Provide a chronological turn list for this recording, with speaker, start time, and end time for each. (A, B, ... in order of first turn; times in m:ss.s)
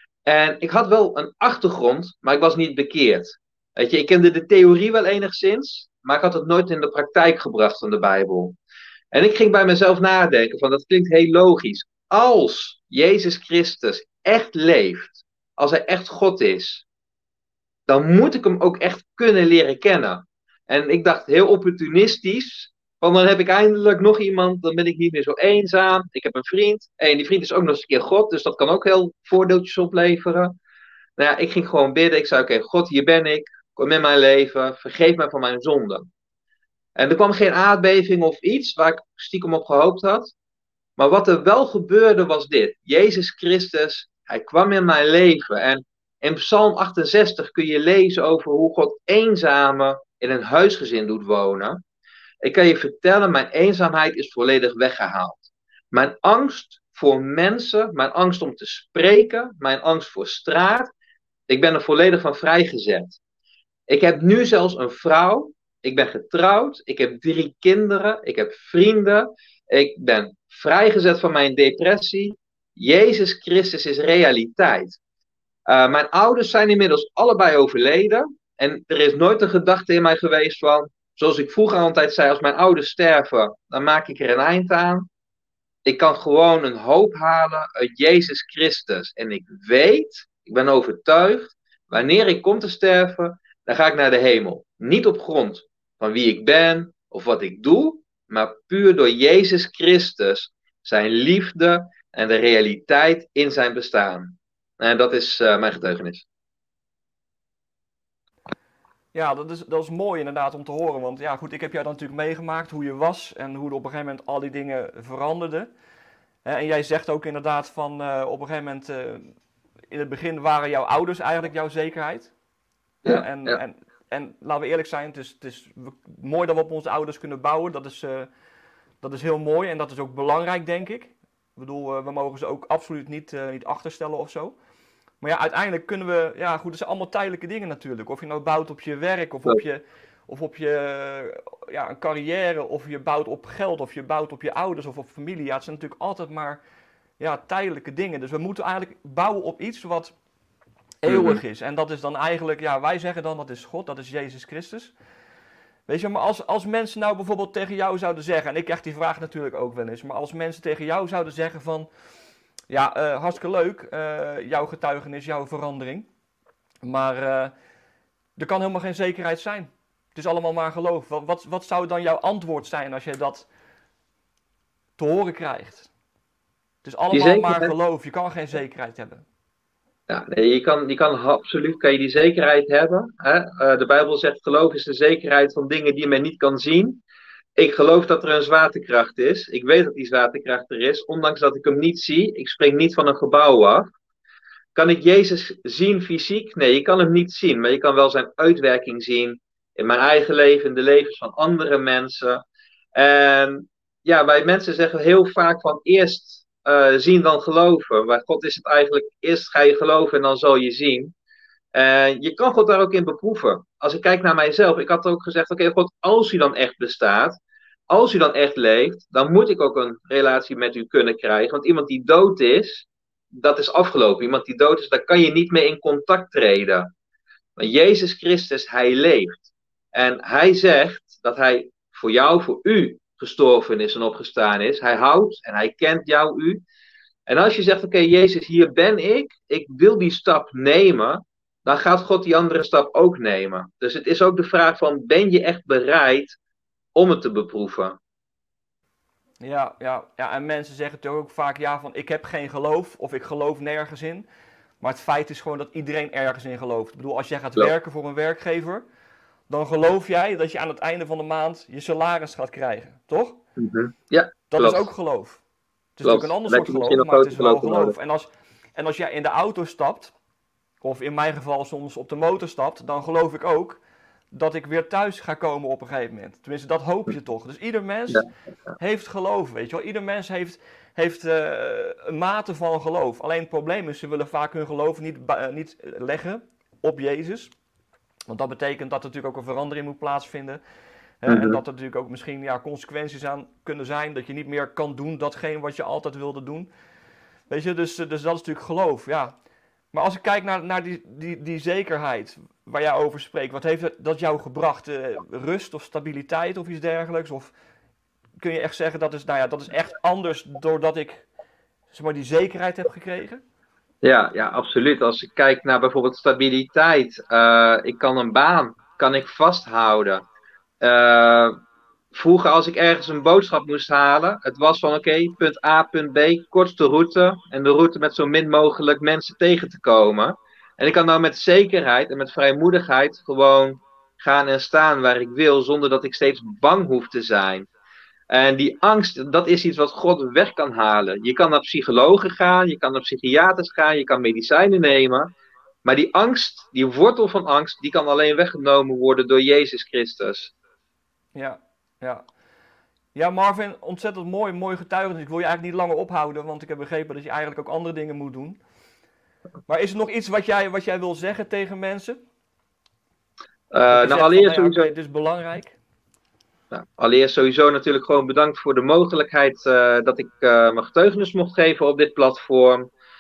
0:00.3-0:08.6 A
0:09.1-0:16.8 A
0:17.9-0:30.6 A
0:31.2-0:36.1 A
0:37.0-0:40.3 A
0:41.0-0:51.8 A
0:52.4-1:00.9 A
1:01.5-1:03.2 A
1:03.9-1:15.0 A
1:15.7-1:25.1 A
1:25.8-1:46.3 A
1:49.1-1:55.7 B
1:56.4-1:59.3 B
1:59.9-2:02.3 B
2:03.0-2:08.3 B
2:03.0-2:03.6 A
2:09.0-2:14.6 B
2:15.2-2:26.6 B
2:27.2-2:30.1 B
2:31.0-2:34.9 B
2:31.1-2:31.4 A
2:35.9-2:41.9 B
2:42.7-2:46.1 B
2:46.8-2:47.5 B
2:48.4-2:53.5 B
2:55.0-2:55.9 B
2:56.8-2:59.2 B
2:57.1-2:57.7 A
3:00.1-3:07.0 A
3:07.6-3:13.9 A
3:14.8-3:31.1 A
3:31.7-3:37.4 A
3:37.9-3:46.9 A
3:47.6-3:56.6 A
3:57.3-4:06.4 A
4:07.0-4:08.0 A
4:09.4-4:14.3 B
4:14.8-4:18.8 B
4:19.5-4:23.4 B
4:23.6-4:24.9 A
4:24.5-4:25.4 B
4:26.0-4:30.1 B
4:26.0-4:28.0 A
4:30.8-4:33.8 B
4:34.3-4:38.2 B
4:38.8-4:47.5 B
4:48.3-4:50.6 B
4:51.2-4:56.7 B
4:51.3-4:51.6 A
4:57.5-4:59.3 B
4:59.9-5:07.5 B
5:08.4-5:11.3 B
5:11.9-5:13.4 B
5:14.0-5:20.3 A
5:20.8-5:21.5 A
5:22.1-5:37.7 A
5:38.3-5:45.3 A
5:45.8-5:50.5 A
5:51.4-5:52.2 B
5:53.2-5:58.6 B
5:59.7-6:02.2 B
6:03.7-6:04.9 A
6:03.9-6:05.8 B
6:06.7-6:12.9 A